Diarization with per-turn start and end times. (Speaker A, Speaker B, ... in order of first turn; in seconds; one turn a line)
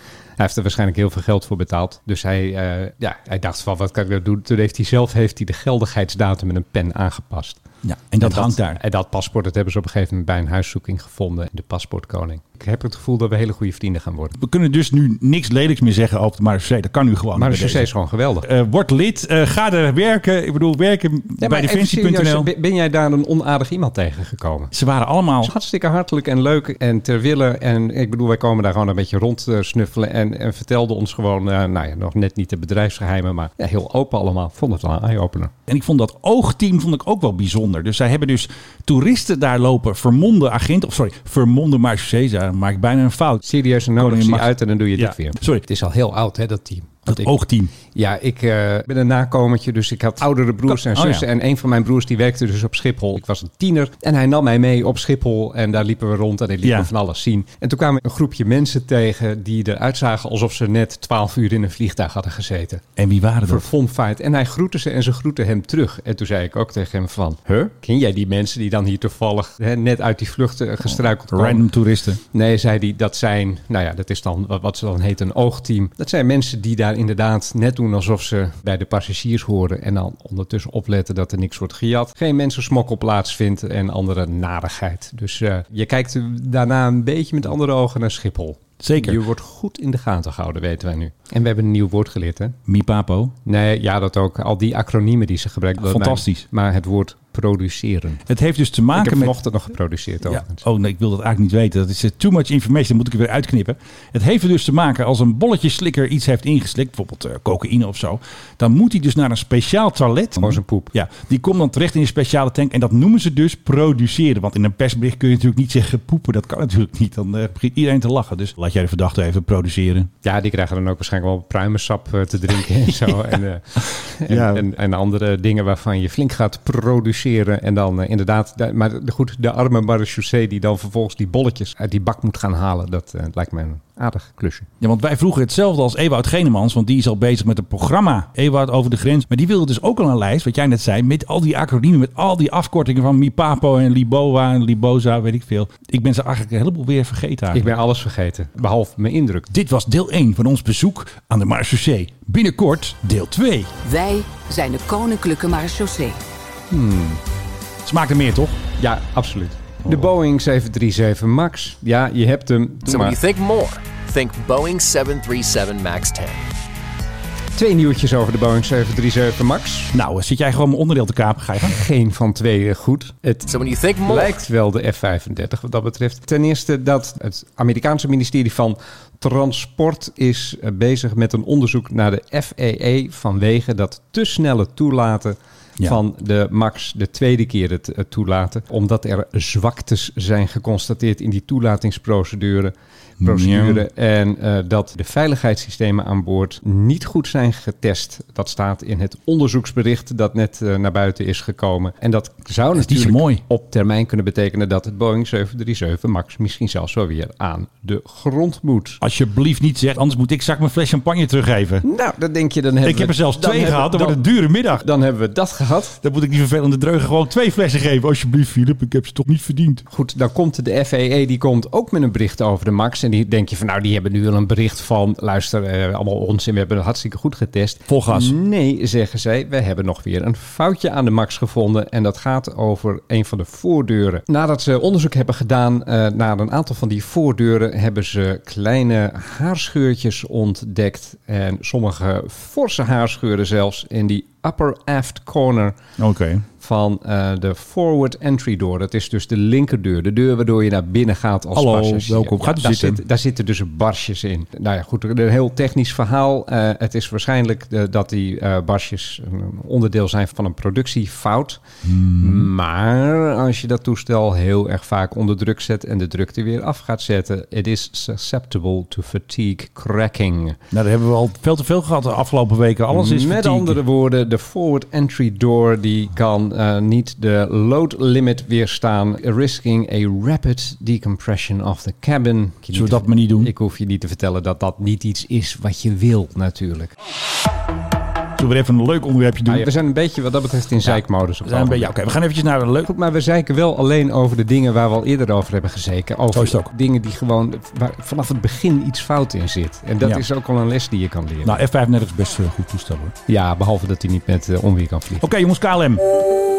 Speaker A: 0.4-7.6
Speaker B: 7.8-8.8
Speaker A: 8.2-14.4
Speaker B: 14.4-17.9
Speaker A: 17.4-18.5
Speaker B: 18.4-22.5
Speaker A: 21.4-24.7
Speaker B: 24.7-25.5
Speaker A: 25.4-35.5
Speaker B: 35.7-43.5
Speaker A: 43.4-47.3
Speaker B: 44.0-45.6
Speaker B: 47.1-47.7
Speaker A: 47.9-62.9
Speaker B: 50.7-51.3
Speaker B: 56.6-56.9
Speaker B: 63.0-63.7
Speaker A: 63.5-71.7
Speaker B: 70.9-72.2
Speaker A: 72.3-92.6
Speaker B: 88.8-89.2
Speaker B: 92.7-93.3
Speaker A: 93.5-98.2
Speaker B: 95.8-96.5
Speaker B: 98.3-99.3
Speaker A: 98.9-100.6
Speaker B: 100.3-120.1
Speaker A: 110.4-110.9
Speaker A: 120.2-134.7
Speaker B: 124.3-124.6
Speaker B: 134.8-147.7
Speaker A: 147.5-149.5
Speaker B: 149.5-153.7
Speaker C: 153.9-156.2
Speaker A: 156.7-157.2
Speaker B: 157.8-158.6
Speaker A: 158.8-163.2
Speaker D: 162.9-166.4
Speaker A: 167.6-169.9
Speaker B: 169.9-171.8
Speaker A: 171.6-173.5
Speaker D: 173.5-174.3
Speaker A: 174.0-209.0
Speaker B: 193.2-193.8
Speaker B: 202.8-203.4
Speaker B: 209.0-211.8
Speaker A: 211.8-216.0
Speaker B: 212.8-214.8
Speaker B: 216.0-219.8
Speaker A: 219.9-245.8
Speaker B: 227.9-228.3
Speaker B: 246.0-246.4
Speaker A: 246.6-261.6
Speaker B: 251.5-253.0
Speaker B: 261.9-262.5
Speaker A: 262.2-270.6
Speaker B: 270.7-273.8
Speaker A: 272.9-286.9
Speaker B: 282.7-283.5
Speaker B: 288.4-289.7
Speaker A: 289.5-291.9
Speaker B: 290.8-292.9
Speaker A: 292.9-301.6
Speaker B: 296.3-296.7
Speaker B: 301.4-303.1
Speaker A: 303.3-305.2
Speaker B: 305.2-306.0